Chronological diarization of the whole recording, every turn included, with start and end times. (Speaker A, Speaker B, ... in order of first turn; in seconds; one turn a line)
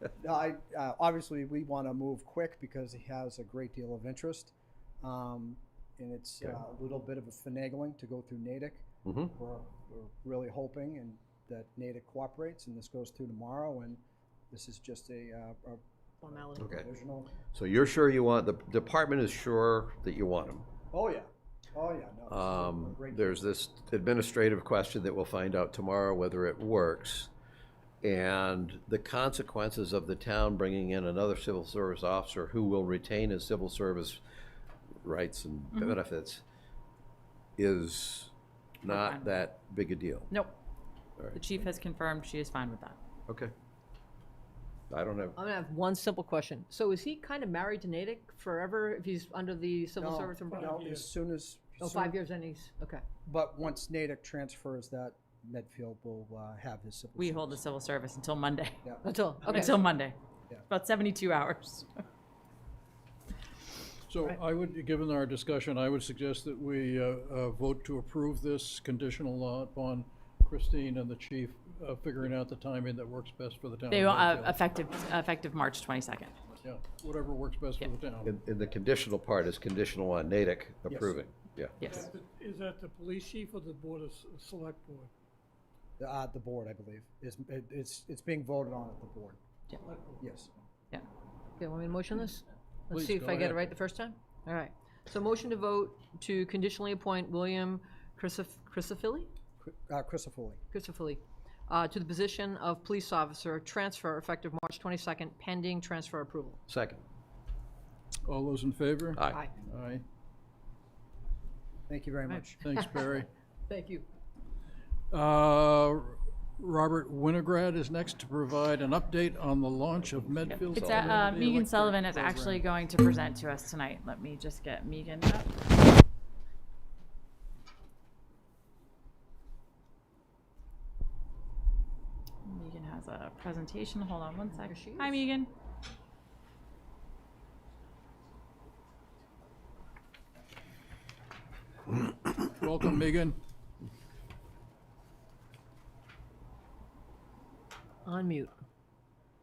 Speaker A: 0.2-17.3
Speaker B: 9.0-9.3
Speaker C: 16.2-16.6
Speaker B: 16.6-16.9
Speaker B: 17.5-20.7
Speaker A: 20.9-23.4
Speaker B: 22.3-27.3
Speaker B: 28.0-34.2
Speaker B: 35.0-36.4
Speaker B: 37.6-40.3
Speaker D: 38.9-39.4
Speaker D: 41.3-43.0
Speaker B: 43.3-43.5
Speaker B: 44.9-45.4
Speaker C: 45.4-50.7
Speaker A: 50.0-52.1
Speaker E: 50.6-51.1
Speaker C: 51.8-53.0
Speaker A: 53.2-57.6
Speaker D: 57.2-58.8
Speaker C: 59.0-59.7
Speaker D: 59.4-60.1
Speaker D: 60.7-62.0
Speaker F: 64.1-74.6
Speaker D: 73.9-76.3
Speaker F: 76.6-78.3
Speaker B: 78.2-81.9
Speaker A: 80.9-81.1
Speaker D: 81.8-82.1
Speaker E: 81.9-85.1
Speaker A: 86.0-89.4
Speaker A: 90.2-90.5
Speaker C: 91.6-99.3
Speaker F: 92.9-93.7
Speaker A: 99.6-100.6
Speaker C: 100.7-106.6
Speaker B: 106.7-107.0
Speaker F: 108.2-110.0
Speaker A: 111.9-112.6
Speaker F: 112.6-113.3
Speaker C: 112.6-114.0
Speaker F: 115.1-122.7
Speaker D: 120.6-125.6
Speaker D: 132.4-135.5
Speaker C: 134.5-135.2
Speaker F: 142.3-143.4
Speaker C: 148.0-148.5